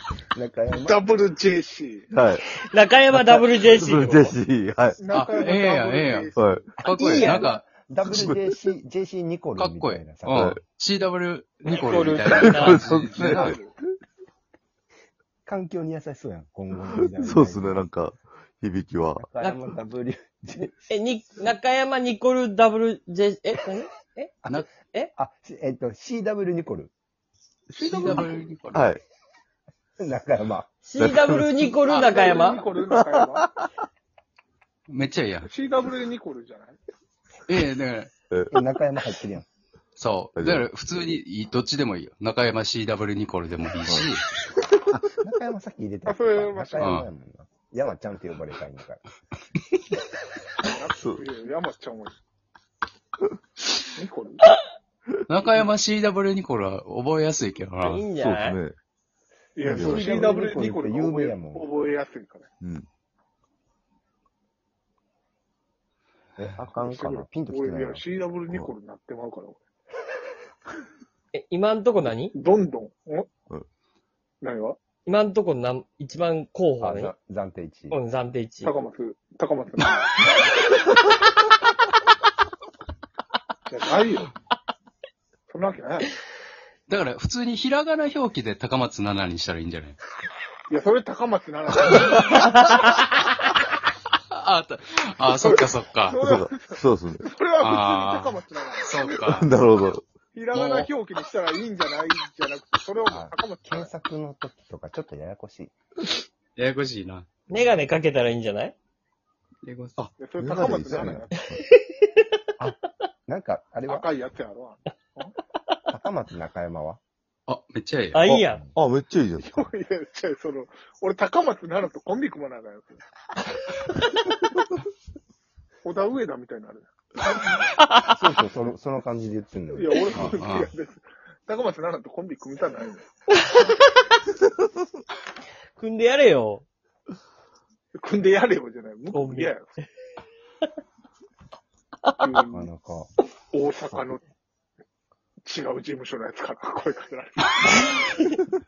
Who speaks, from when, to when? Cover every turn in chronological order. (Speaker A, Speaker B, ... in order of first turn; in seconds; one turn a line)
Speaker A: 0.3-1.1
Speaker B: 0.8-2.1
Speaker C: 2.1-2.4
Speaker D: 2.6-4.3
Speaker C: 3.1-5.0
Speaker B: 5.0-6.6
Speaker E: 5.1-7.6
Speaker C: 6.3-6.7
Speaker A: 6.8-10.5
Speaker D: 6.8-7.5
Speaker C: 8.1-8.6
Speaker E: 9.6-13.6
Speaker C: 10.3-10.6
Speaker D: 11.6-12.8
Speaker C: 12.3-13.6
Speaker B: 12.8-13.7
Speaker A: 15.4-17.8
Speaker C: 17.1-19.3
Speaker A: 19.2-20.8
Speaker D: 20.6-24.3
Speaker A: 24.4-26.9
Speaker E: 27.7-28.9
Speaker B: 27.7-28.5
Speaker C: 27.8-29.0
Speaker A: 30.0-30.7
Speaker D: 30.8-32.6
Speaker C: 31.0-31.9
Speaker B: 31.9-33.5
Speaker E: 31.9-32.1
Speaker C: 33.0-33.5
Speaker E: 34.9-35.5
Speaker B: 35.4-36.8
Speaker E: 37.5-38.1
Speaker C: 38.3-38.6
Speaker A: 38.5-39.4
Speaker E: 40.0-44.2
Speaker C: 40.4-40.7
Speaker C: 43.8-44.1
Speaker A: 44.9-49.0
Speaker B: 46.0-47.0
Speaker E: 46.8-47.1
Speaker B: 50.6-52.1
Speaker C: 51.0-51.2
Speaker B: 54.0-54.4
Speaker E: 55.3-58.1
Speaker D: 57.8-58.6
Speaker C: 58.1-58.8
Speaker B: 59.6-62.5
Speaker C: 59.6-60.3
Speaker A: 59.7-61.7
Speaker C: 62.6-62.9
Speaker A: 66.4-68.2
Speaker B: 66.7-69.6
Speaker D: 71.3-72.3
Speaker B: 72.3-73.3
Speaker B: 74.4-74.8
Speaker D: 75.0-77.1
Speaker A: 76.8-78.0
Speaker D: 77.9-78.8
Speaker B: 78.6-80.2
Speaker B: 83.7-84.3
Speaker B: 85.5-86.1
Speaker E: 86.9-90.0
Speaker B: 90.7-92.6
Speaker E: 94.3-96.2
Speaker B: 95.3-99.5
Speaker C: 96.1-97.2
Speaker E: 97.6-99.5
Speaker C: 99.3-100.1
Speaker B: 100.3-103.9
Speaker E: 100.5-100.9
Speaker A: 103.1-105.7
Speaker E: 106.5-107.3
Speaker D: 107.5-108.7
Speaker E: 109.6-110.1
Speaker B: 110.2-111.4
Speaker C: 110.4-111.6
Speaker A: 110.5-111.2
Speaker D: 111.5-112.0
Speaker A: 112.6-114.1
Speaker B: 113.9-115.3
Speaker A: 115.9-117.0
Speaker E: 117.5-118.3
Speaker D: 118.1-118.6
Speaker C: 118.2-119.7
Speaker B: 119.4-123.0
Speaker B: 125.8-126.9
Speaker D: 127.6-128.2
Speaker A: 128.1-130.4
Speaker B: 129.7-133.1
Speaker E: 130.1-130.7
Speaker D: 135.8-136.6
Speaker B: 138.0-139.8
Speaker D: 139.1-139.5
Speaker B: 142.2-142.7
Speaker A: 142.5-143.1
Speaker B: 143.5-144.2
Speaker B: 145.4-147.9